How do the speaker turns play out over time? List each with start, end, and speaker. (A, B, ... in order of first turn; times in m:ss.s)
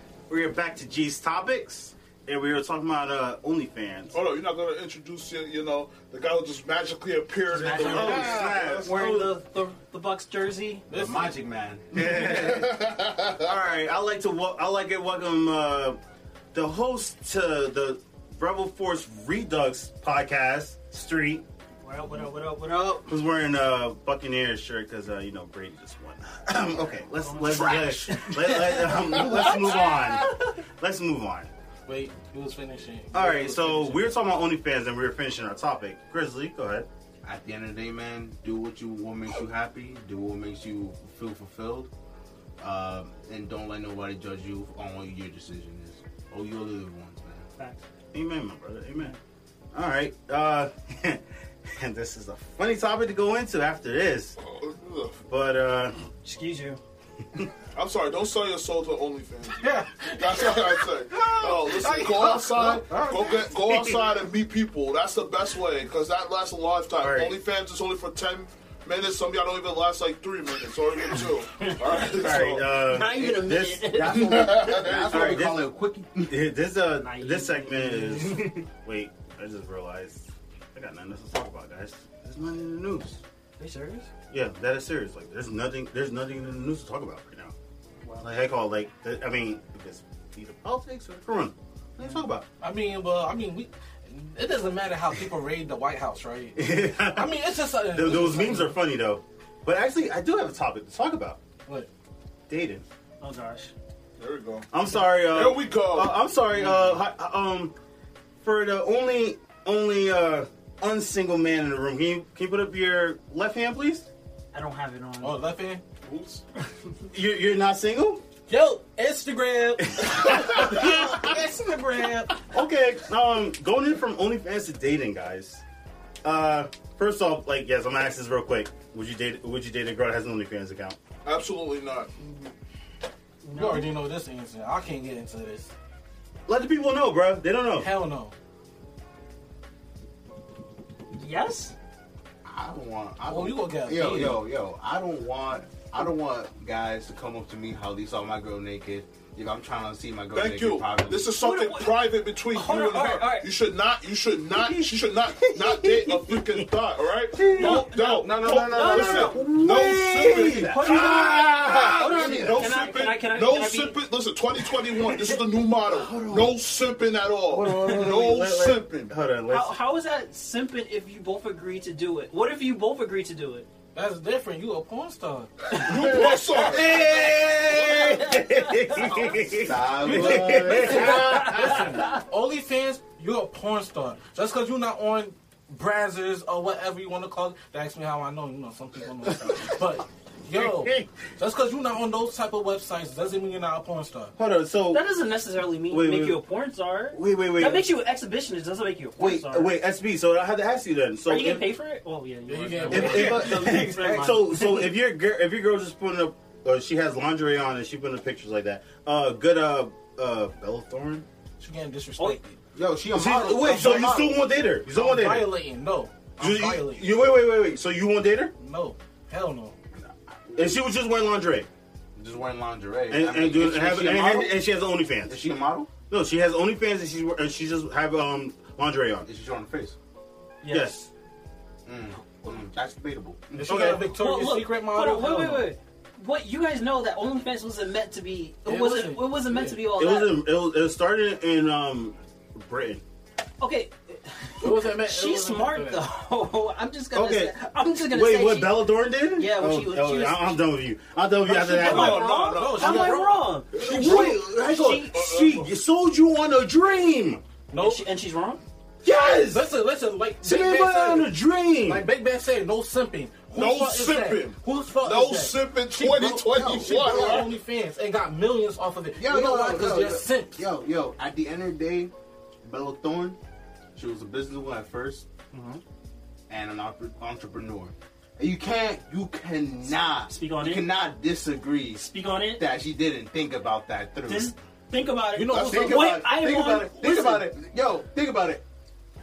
0:00.3-0:04.1 A
0:04.1-0:08.9 B
0:07.5-0:10.9 C
0:07.6-0:09.3 A
0:07.9-0:08.3 D
0:10.9-0:11.3 D
0:10.9-0:12.7 E
0:11.9-0:12.8 A
0:12.0-0:13.5 B
0:13.4-0:16.0 A
0:16.5-0:21.4 A
0:21.8-0:23.1 C
0:23.0-0:31.5 A
0:26.9-0:28.6 C
0:31.9-0:34.2 D
0:33.1-0:36.9 A
0:37.2-0:41.9 E
0:42.6-0:47.5 E
0:47.6-0:47.8 C
0:48.1-0:49.1 A
0:49.7-0:54.4 A
0:54.4-0:55.2 B
0:55.3-0:56.0 A
0:56.2-0:56.8 C
0:57.7-1:12.8 B
0:59.6-1:03.5 D
1:03.7-1:04.0 A
1:06.9-1:07.4 A
1:11.6-1:12.0 C
1:12.0-1:15.7 A
1:12.8-1:14.6 C
1:13.9-1:16.4 E
1:14.2-1:15.4 B
1:16.2-1:23.2 A
1:17.0-1:18.0 C
1:23.6-1:24.1 C
1:24.3-1:27.5 A
1:28.0-1:28.3 C
1:28.2-1:32.4 A
1:32.6-1:38.8 D
1:36.6-1:41.4 A
1:42.5-1:42.8 A
1:43.2-1:43.7 C
1:44.2-1:46.2 B
1:44.7-1:47.7 A
1:46.6-1:46.9 D
1:48.4-1:54.1 A
1:54.5-1:55.4 C
1:55.2-1:55.8 D
1:56.0-1:56.4 B
1:57.1-1:58.2 A
1:58.5-2:02.4 D
1:59.8-2:01.4 A
2:02.4-2:05.6 A
2:06.2-2:11.0 A
2:11.2-2:12.1 B
2:12.2-2:12.5 C
2:13.4-2:13.9 C
2:13.5-2:15.7 D
2:16.5-2:17.9 A
2:17.8-2:18.3 D
2:21.1-2:21.8 C
2:22.4-2:31.2 E
2:23.3-2:24.4 D
2:30.3-2:49.1 B
2:31.4-2:32.0 C
2:32.5-2:33.5 C
2:34.5-2:36.7 A
2:37.3-2:37.8 A
2:37.5-2:39.5 C
2:37.7-2:42.6 E
2:39.4-2:41.9 A
2:40.5-2:44.0 C
2:45.9-2:46.5 A
2:47.5-2:49.8 A
2:49.5-2:53.7 C
2:53.9-2:55.6 D
2:55.7-2:59.4 C
2:55.8-2:56.9 B
2:56.0-3:01.9 A
2:59.5-3:01.2 E
3:00.1-3:14.3 D
3:00.8-3:02.2 C
3:10.5-3:11.1 A
3:14.4-3:15.0 A
3:14.9-3:19.8 C
3:15.9-3:16.4 A
3:17.1-3:17.9 A
3:19.2-3:21.7 A
3:21.2-3:24.8 C
3:22.5-3:24.2 D
3:22.9-3:31.3 A
3:31.6-3:32.6 D
3:32.8-3:34.5 E
3:33.1-3:35.6 A
3:33.6-3:34.1 D
3:34.8-3:37.1 D
3:36.4-3:38.5 A
3:38.6-3:39.8 D
3:39.9-3:40.8 E
3:40.5-3:41.7 A
3:42.2-3:44.6 E
3:43.1-3:45.4 A
3:45.2-3:45.9 E
3:46.0-3:49.3 A
3:49.2-3:50.0 E
3:50.6-3:51.0 C
3:50.7-3:51.1 A
3:51.8-3:53.9 E
3:53.5-3:55.7 D
3:53.6-3:54.0 A
3:54.1-4:00.4 C
3:58.7-3:59.8 D
3:59.9-4:03.0 A
4:03.6-4:08.8 C
4:04.6-4:06.0 D
4:07.1-4:12.4 A
4:09.3-4:10.6 C
4:11.4-4:15.2 C
4:11.7-4:13.2 B
4:12.5-4:13.5 D
4:13.7-4:14.5 B
4:13.7-4:17.4 A
4:15.1-4:15.7 B
4:17.7-4:18.1 D
4:17.8-4:18.6 C
4:19.0-4:19.7 A
4:19.1-4:30.6 D
4:20.4-4:22.1 A
4:23.5-4:27.5 B
4:26.5-4:27.5 E
4:29.2-4:32.1 E
4:32.6-4:33.4 E
4:34.0-4:35.3 E
4:35.5-4:35.8 C
4:36.5-4:44.5 E
4:40.3-4:40.9 C
4:42.0-4:42.7 C
4:44.3-4:47.5 C
4:45.3-4:46.0 D
4:45.4-4:48.6 E